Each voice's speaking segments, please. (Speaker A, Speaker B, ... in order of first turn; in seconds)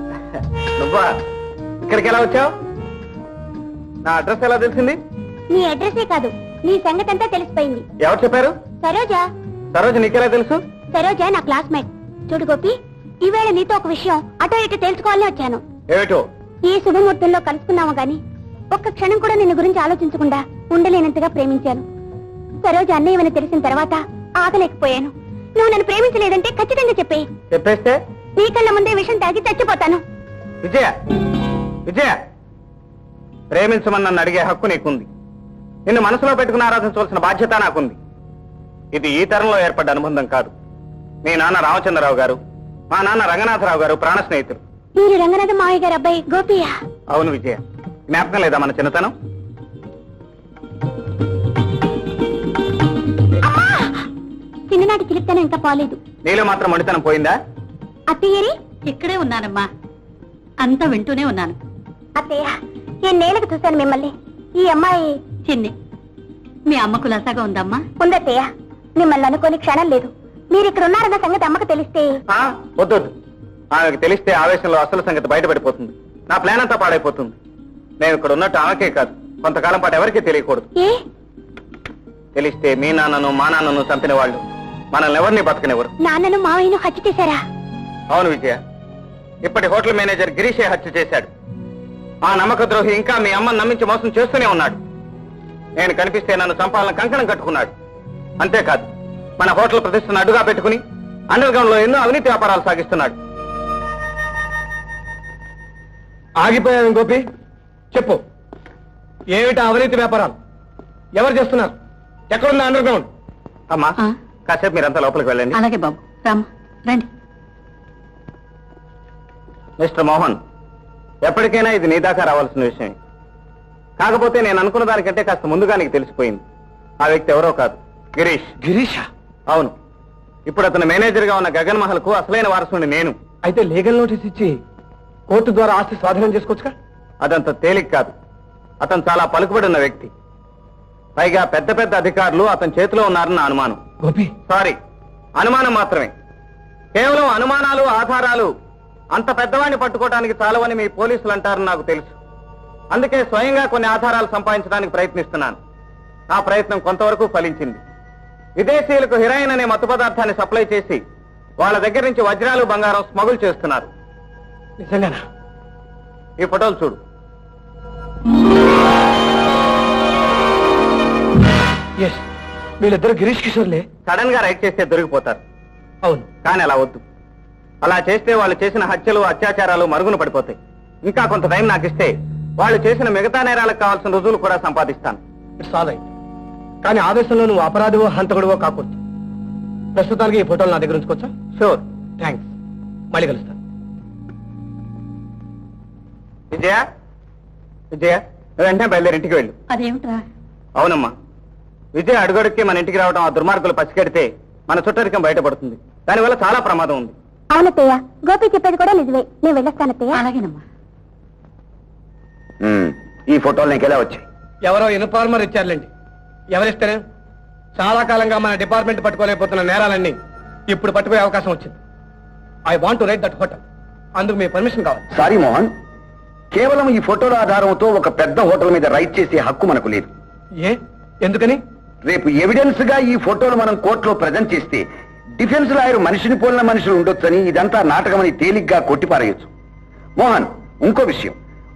Speaker A: 0.8-1.1, 1.8-2.5, 4.0-5.0, 8.0-8.5, 9.7-10.6, 15.9-16.2, 27.5-28.0, 30.6-30.9, 31.9-32.2, 33.5-35.1, 35.9-38.0, 38.9-40.5, 41.2-42.4, 42.9-44.6, 47.1-49.1, 56.2-57.4, 72.3-73.1, 73.7-77.3, 78.0-80.7, 82.3-85.9, 88.1-88.6, 89.4-91.3, 92.2-94.8, 95.8-97.7, 98.4-103.2, 113.7-115.6, 119.8-120.4, 121.2-123.0, 124.0-126.4, 127.0-128.5, 129.5-129.7, 130.5-133.2, 137.2-138.1, 138.8-140.1, 141.2-143.8, 144.5-144.8, 145.4-146.1, 146.9-148.5, 149.1-152.1, 152.9-155.6, 156.3-157.8, 158.6-161.0, 161.6-163.9, 166.4-167.0, 174.1-175.4, 176.4-177.0, 177.8-185.2, 191.6-191.8, 196.5-196.8, 197.9-199.6, 200.8-201.1, 201.9-207.1
Speaker B: 5.5-7.8, 8.8-9.2, 10.9-15.6, 16.6-21.9, 22.6-27.3, 28.4-30.0, 45.0-46.7, 53.4-54.0, 54.7-56.0, 58.1-58.5, 62.1-65.2, 68.0-72.2, 80.7-81.0, 86.0-87.4, 207.5-210.2
Speaker C: 58.9-59.7, 60.6-61.6, 66.7-67.8, 115.8-116.4
Speaker D: 106.4-107.2, 107.9-108.2, 109.3-110.3, 111.1-111.7, 112.3-113.1, 128.6-129.1, 133.4-134.6, 135.3-136.7, 144.0-144.3, 164.8-165.2, 172.8-173.8, 185.6-186.1, 186.8-189.0, 189.9-191.3, 192.2-192.5, 193.1-193.6, 214.6-215.9, 216.5-217.0, 217.7-220.2, 220.7-221.8, 222.7-223.6, 224.2-225.0, 230.6-231.6
Speaker E: 212.6-214.2, 225.1-225.7, 226.5-230.1, 232.0-234.8, 235.4-239.5, 240.2-241.3